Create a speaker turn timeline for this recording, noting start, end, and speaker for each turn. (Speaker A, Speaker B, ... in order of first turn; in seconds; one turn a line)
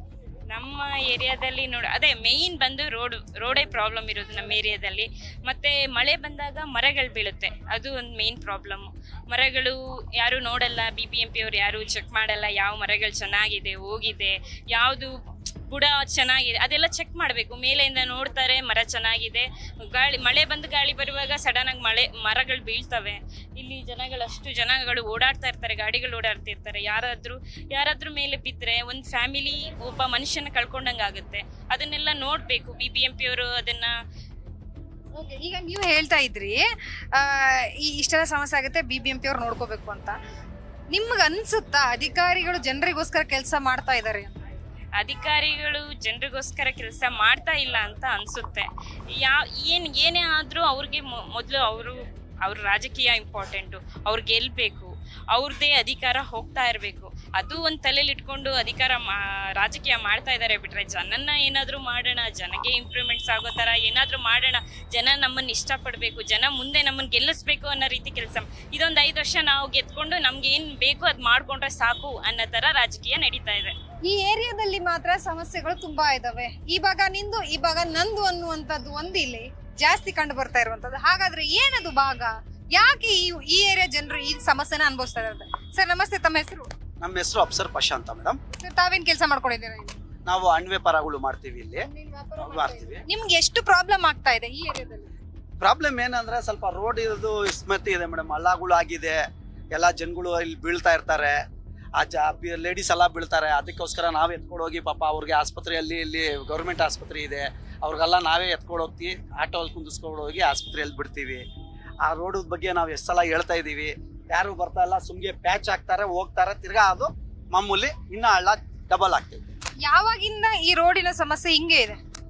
Speaker A: 0.5-15.1
Speaker A: 15.7-33.9
Speaker B: 35.2-40.2
Speaker B: 40.9-44.4
Speaker A: 45.0-73.8
Speaker B: 74.1-86.7
Speaker C: 87.0-88.4
Speaker B: 88.5-90.0
Speaker C: 90.3-91.9
Speaker B: 91.9-95.1
Speaker C: 92.4-93.0
Speaker C: 95.6-99.2
Speaker C: 99.7-101.4
Speaker C: 102.0-111.4
Speaker C: 112.0-119.4
Speaker B: 119.9-122.0